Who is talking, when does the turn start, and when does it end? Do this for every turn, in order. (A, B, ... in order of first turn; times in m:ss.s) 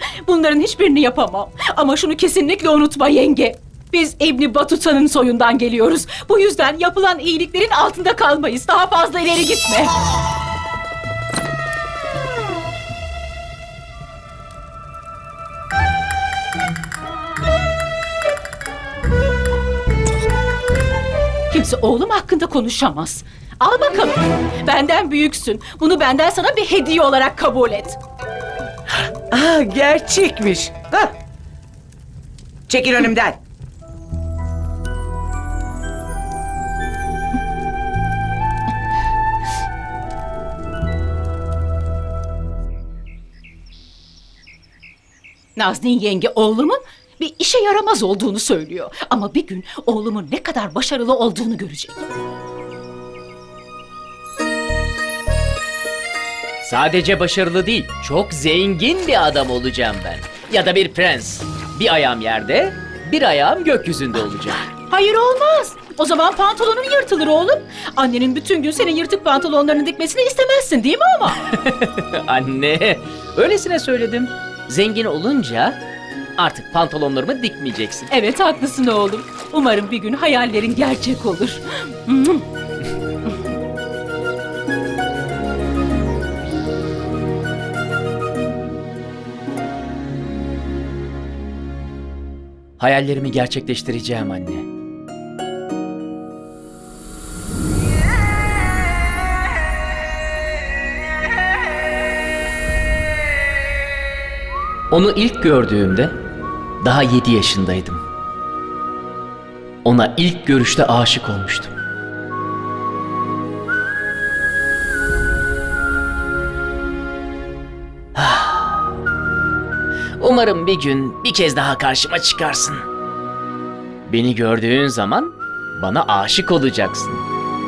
0:00.2-0:09.9 A
0:21.5-0:28.0 A
0:28.9-0:31.1 B
0:32.7-0:33.4 B
0:45.6-0:52.0 A
0:56.6-1:04.6 C
1:04.8-1:11.5 A
1:11.5-1:15.8 C
1:16.4-1:18.1 C
1:18.1-1:22.4 A
1:32.8-1:34.6 C
1:44.9-1:46.1 C
1:46.8-1:48.0 C
1:49.8-1:51.7 C
1:58.2-1:58.8 C
2:00.2-2:02.8 C
2:04.0-2:07.2 C